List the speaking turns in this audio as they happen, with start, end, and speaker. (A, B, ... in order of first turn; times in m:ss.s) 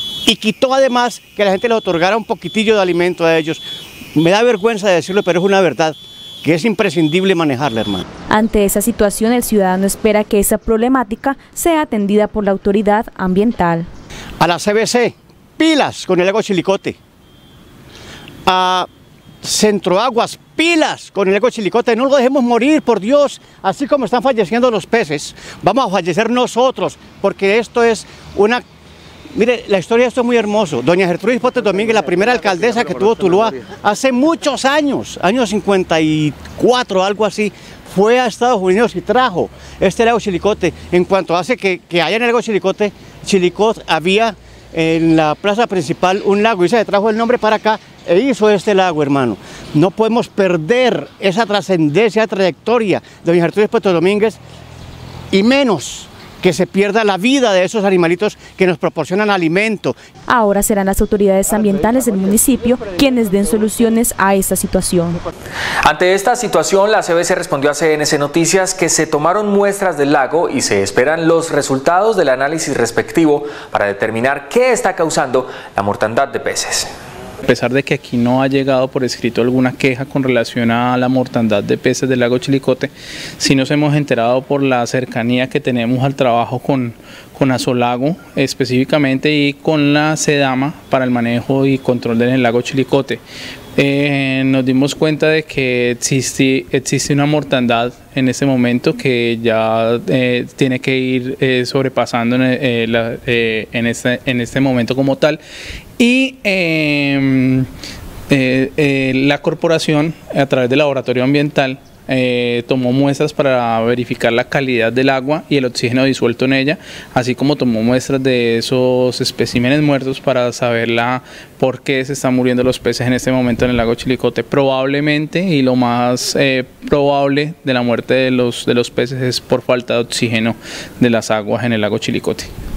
0:00.2-0:03.6 A
0:04.1-0:08.0 A
0:08.3-0:13.9 B
0:14.4-0:17.0 A
0:18.4-0:18.9 A
0:19.4-0:28.6 A
0:29.3-0:54.4 A
0:55.3-1:00.0 A
1:00.3-1:05.2 B
1:05.8-1:16.9 C
1:17.4-1:33.2 D
1:33.8-1:45.4 D
1:46.0-1:47.7 D
1:48.3-2:12.5 D